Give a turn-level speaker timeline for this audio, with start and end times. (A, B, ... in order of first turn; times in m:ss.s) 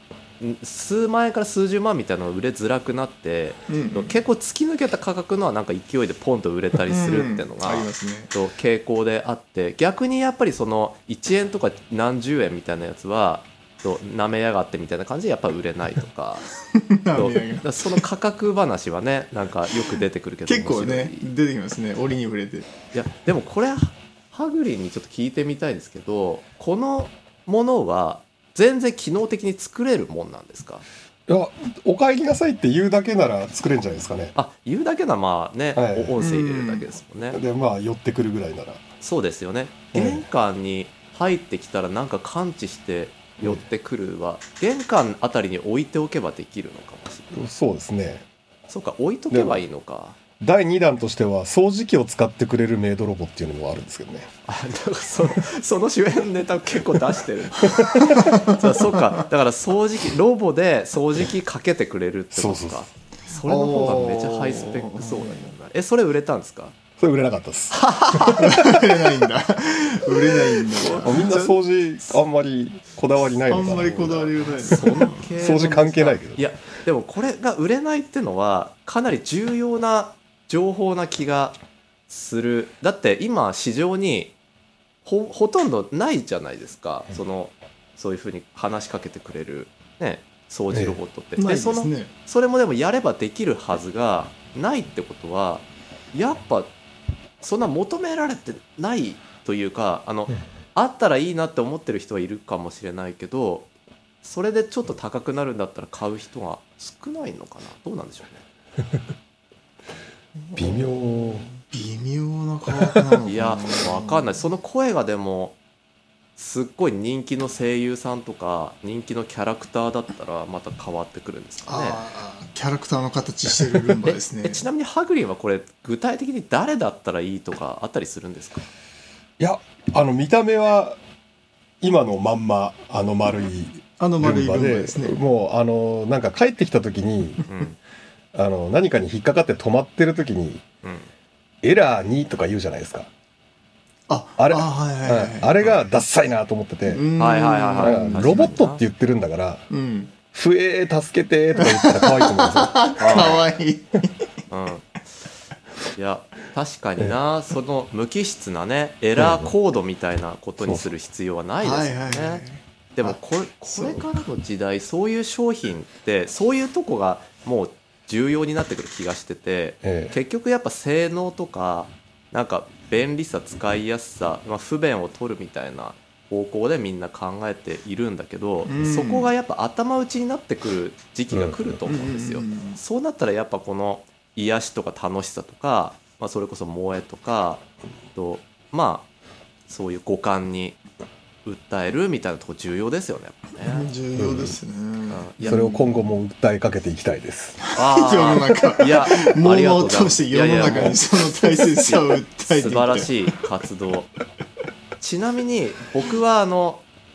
0:00.4-0:16.5 A
0:03.7-0:04.2 B
0:06.9-0:08.3 B
0:16.8-0:18.0 B
0:17.1-0:21.3 A
0:20.5-0:22.7 B
0:22.9-0:30.9 A
0:31.3-0:34.4 C
0:34.4-0:37.4 A
0:35.7-0:36.2 C
0:36.2-0:36.9 B
0:37.3-0:38.8 C
0:39.0-0:47.3 A
0:39.9-0:40.2 C
0:47.3-0:48.3 C
0:48.7-0:50.2 A
0:49.3-0:49.6 C
0:50.4-0:54.3 C
0:54.5-1:06.8 A
0:58.0-0:58.5 B
1:02.3-1:02.9 C
1:03.4-1:05.6 B
1:07.0-1:07.8 C
1:07.7-1:08.5 A
1:08.3-1:11.5 B
1:10.8-1:11.1 A
1:11.0-1:14.2 C
1:13.5-1:15.2 B
1:13.7-1:21.6 A
1:14.8-1:16.4 C
1:22.1-1:24.4 A
1:25.0-1:36.7 A
1:30.7-1:31.0 C
1:31.4-1:32.1 B
1:37.4-1:43.7 A
1:44.2-1:48.4 A
1:50.5-1:54.3 B
1:50.6-1:51.5 C
1:53.2-1:55.6 A
1:56.4-2:02.0 A
2:01.7-2:04.6 B
2:04.0-2:08.7 A
2:09.4-2:11.0 C
2:11.8-2:17.4 C
2:14.0-2:15.2 B
2:17.5-2:17.8 A
2:18.3-2:20.6 C
2:20.8-2:21.1 A
2:21.6-2:23.1 C
2:24.1-2:25.6 B
2:24.4-2:27.0 C
2:26.9-2:28.6 B
2:27.2-2:28.8 A
2:27.8-2:29.6 C
2:29.7-2:30.1 B
2:30.3-2:33.3 C
2:31.6-2:34.2 B
2:33.0-2:33.4 A
2:34.5-2:34.9 A
2:36.0-2:42.4 A
2:39.2-2:39.5 C
2:40.6-2:40.9 C
2:41.6-2:44.2 B
2:43.0-3:09.1 A
2:49.8-2:50.2 C
2:58.7-2:59.3 B
3:01.3-3:01.6 C
3:01.9-3:02.8 B
3:09.7-3:10.8 A
3:11.4-3:13.9 A
3:13.7-3:16.0 B
3:14.2-3:14.6 C
3:15.1-3:15.4 A
3:15.4-3:17.6 C
3:17.7-3:23.4 B
3:17.8-3:24.1 A
3:25.0-3:26.8 A